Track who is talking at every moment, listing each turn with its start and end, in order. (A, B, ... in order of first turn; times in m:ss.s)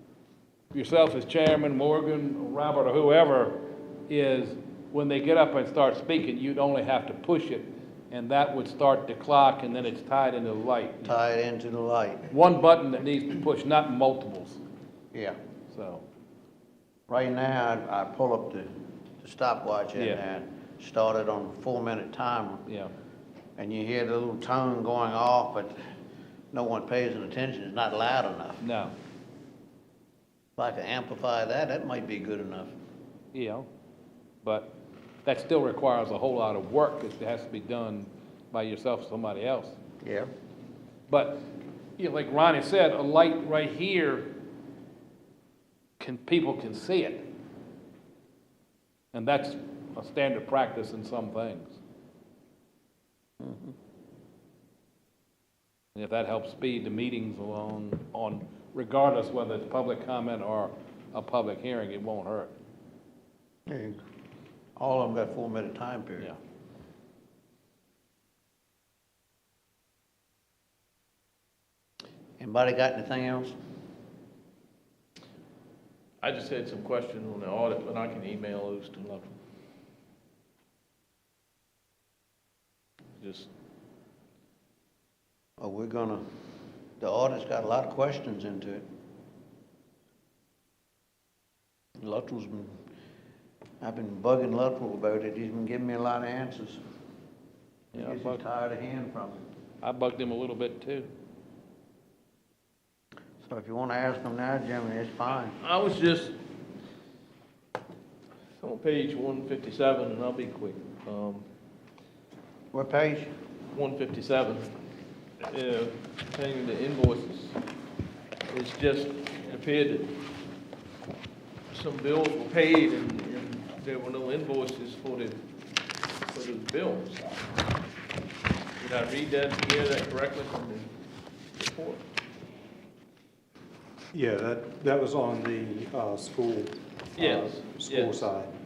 0:00.7-0:11.1 A
0:11.0-0:12.3 B
0:12.3-0:14.6 A
0:15.7-0:16.0 A
0:17.1-0:18.7 B
0:19.2-0:22.6 B
0:22.7-0:22.9 A
0:23.6-0:25.7 B
0:26.5-0:28.6 B
0:28.6-0:28.9 A
0:30.6-0:32.7 B
0:33.3-0:33.7 A
0:34.4-0:34.7 A
0:35.2-0:39.8 A
0:40.0-0:40.3 B
0:41.1-0:41.4 A
0:42.0-0:44.3 A
0:46.0-0:47.2 A
0:49.1-0:51.8 A
0:53.4-0:53.7 B
0:56.0-1:02.5 A
1:03.7-1:04.0 B
1:04.8-1:06.3 B
1:12.4-1:13.6 B
1:16.2-1:19.3 C
1:23.2-1:23.5 C
1:25.6-1:26.2 B
1:27.0-1:28.9 B
1:32.0-1:32.7 B
1:33.8-1:36.8 B
1:37.9-1:38.4 A
1:37.9-1:39.4 B
1:39.8-1:41.1 A
1:43.4-1:45.6 B
1:45.4-1:46.4 C
1:48.6-1:51.5 C
1:52.7-1:53.3 B
1:53.7-1:54.7 C
1:55.4-1:57.6 C
1:58.5-2:00.2 C
2:01.7-2:05.4 C
2:06.3-2:07.4 C
2:08.8-2:10.9 C
2:11.5-2:12.0 C
2:14.1-2:18.5 D
2:17.2-2:18.3 C